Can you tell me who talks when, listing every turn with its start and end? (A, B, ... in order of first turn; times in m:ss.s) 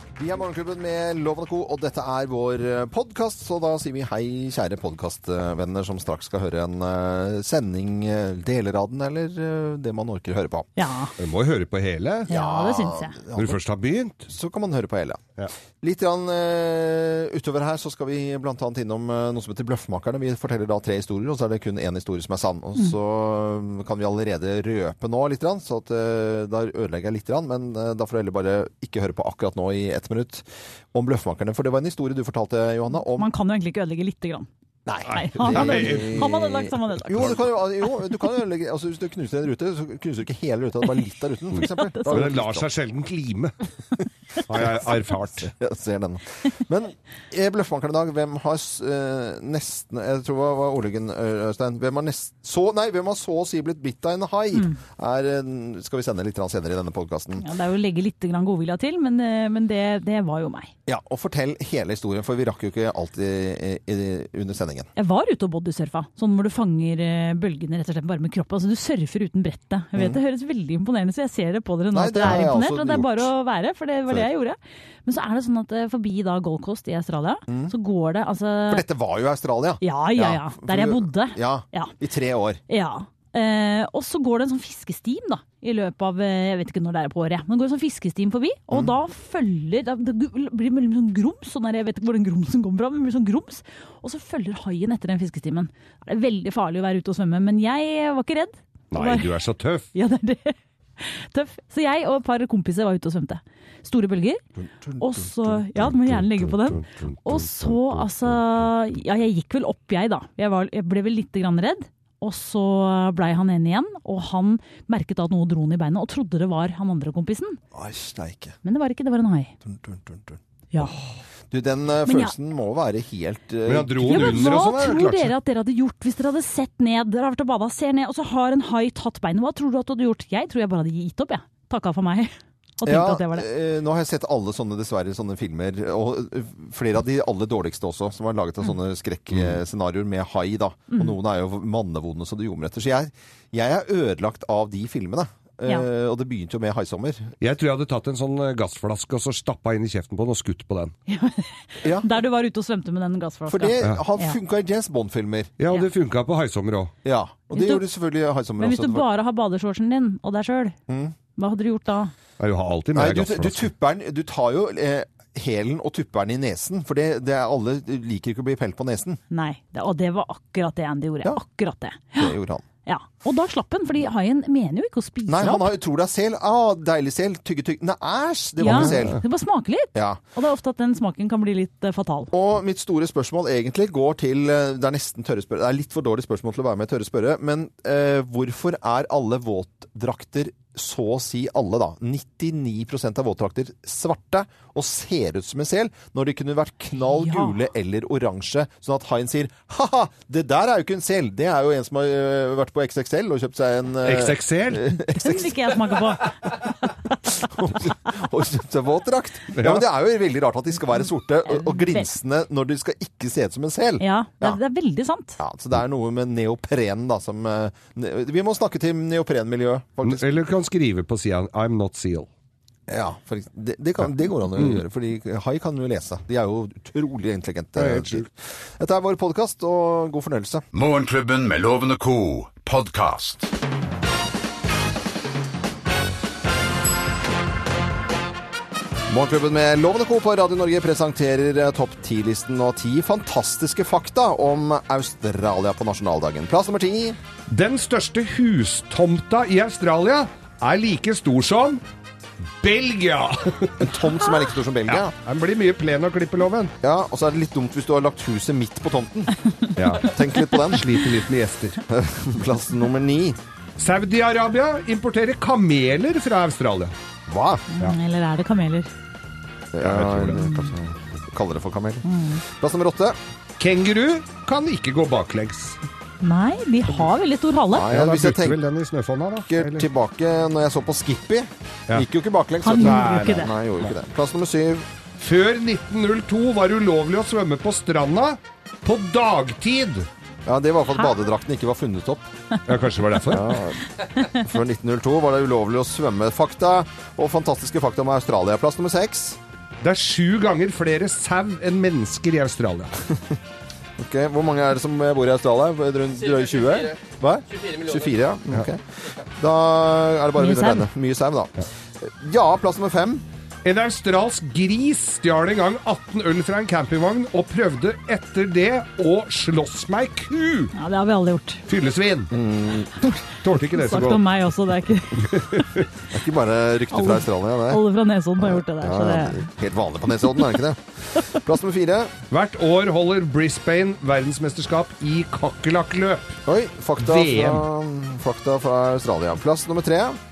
0:00.2-0:10.7 A
0:10.8-0:11.1 B
0:11.2-0:12.3 C
0:12.3-0:13.2 B
0:12.3-0:13.6 A
0:13.4-0:14.3 C
0:14.3-0:15.3 A
0:15.8-0:33.3 A
0:33.1-0:34.5 B
0:34.9-0:42.7 A
0:35.1-0:38.0 B
0:35.4-0:36.3 C
0:41.6-0:42.3 B
0:41.6-0:43.6 C
0:44.5-0:45.5 C
0:45.4-0:57.4 A
0:57.4-1:00.7 B
1:00.9-1:04.9 A
1:05.0-1:18.8 B
1:11.9-1:13.3 A
1:17.5-1:17.7 A
1:18.7-1:22.6 A
1:19.8-1:21.9 B
1:22.7-1:39.4 B
1:38.9-1:39.9 C
1:39.9-1:44.4 B
1:44.6-1:45.2 A
1:45.0-1:57.6 B
1:45.8-1:48.6 C
1:57.7-1:58.6 A
1:58.6-1:59.5 B
1:59.6-2:00.4 A
2:01.5-2:04.5 A
2:02.1-2:02.4 B
2:03.7-2:05.3 C
2:04.0-2:13.5 B
2:12.8-2:27.3 A
2:27.4-2:30.9 C
2:31.1-2:34.4 B
2:31.8-2:32.1 A
2:33.5-2:35.5 A
2:35.6-2:36.9 C
2:37.0-2:39.1 A
2:37.5-2:37.9 B
2:38.6-2:40.8 B
2:40.9-2:41.1 A
2:41.4-2:42.1 B
2:42.4-2:43.7 C
2:42.9-2:49.2 A
2:49.3-2:52.3 B
2:52.2-2:52.6 A
2:52.8-2:55.7 B
2:55.3-2:59.2 A
2:58.6-3:02.3 B
2:58.7-2:59.2 C
2:59.9-3:00.2 A
3:02.3-3:25.6 A
3:17.1-3:17.6 B
3:24.0-3:24.9 C
3:25.1-3:26.3 B
3:27.2-3:34.6 A
3:29.6-3:29.9 C
3:31.5-3:32.1 B
3:34.0-3:35.4 B
3:35.4-3:40.3 A
3:40.0-3:42.3 C
3:42.9-3:50.6 A
3:47.8-3:48.3 C
3:50.7-3:53.5 D
3:59.1-4:07.2 A
4:07.5-4:11.8 C
4:12.6-4:14.0 C
4:13.8-4:15.1 A
4:14.9-4:16.7 C
4:16.8-4:19.4 A
4:19.8-4:21.8 C
4:20.0-4:20.8 A
4:21.9-4:23.4 A
4:23.8-4:26.9 C
4:27.3-4:27.7 A
4:27.7-4:28.9 B
4:29.7-4:33.2 A
4:29.8-4:30.5 C
4:32.0-4:32.4 B
4:33.6-4:35.8 C
4:36.2-4:37.9 B
4:37.7-4:38.6 A
4:37.9-4:39.9 C
4:39.5-4:44.9 A
4:42.6-4:43.5 B
4:42.8-4:43.5 C
4:45.2-4:50.1 C
4:50.5-4:52.3 A
4:52.7-4:53.6 C
4:53.3-4:59.4 A
4:59.8-5:02.9 C
5:04.0-5:13.2 A
5:10.4-5:10.9 B
5:13.6-5:20.7 C
5:20.8-5:21.6 B
5:21.7-5:22.3 C
5:22.3-5:23.0 A
5:23.3-5:24.2 C
5:23.7-5:25.5 B
5:25.2-5:25.9 C
5:26.1-5:27.8 A
5:26.9-5:29.5 B
5:28.5-5:32.2 A
5:32.3-5:36.4 C
5:36.5-5:40.2 A
5:37.0-5:37.6 C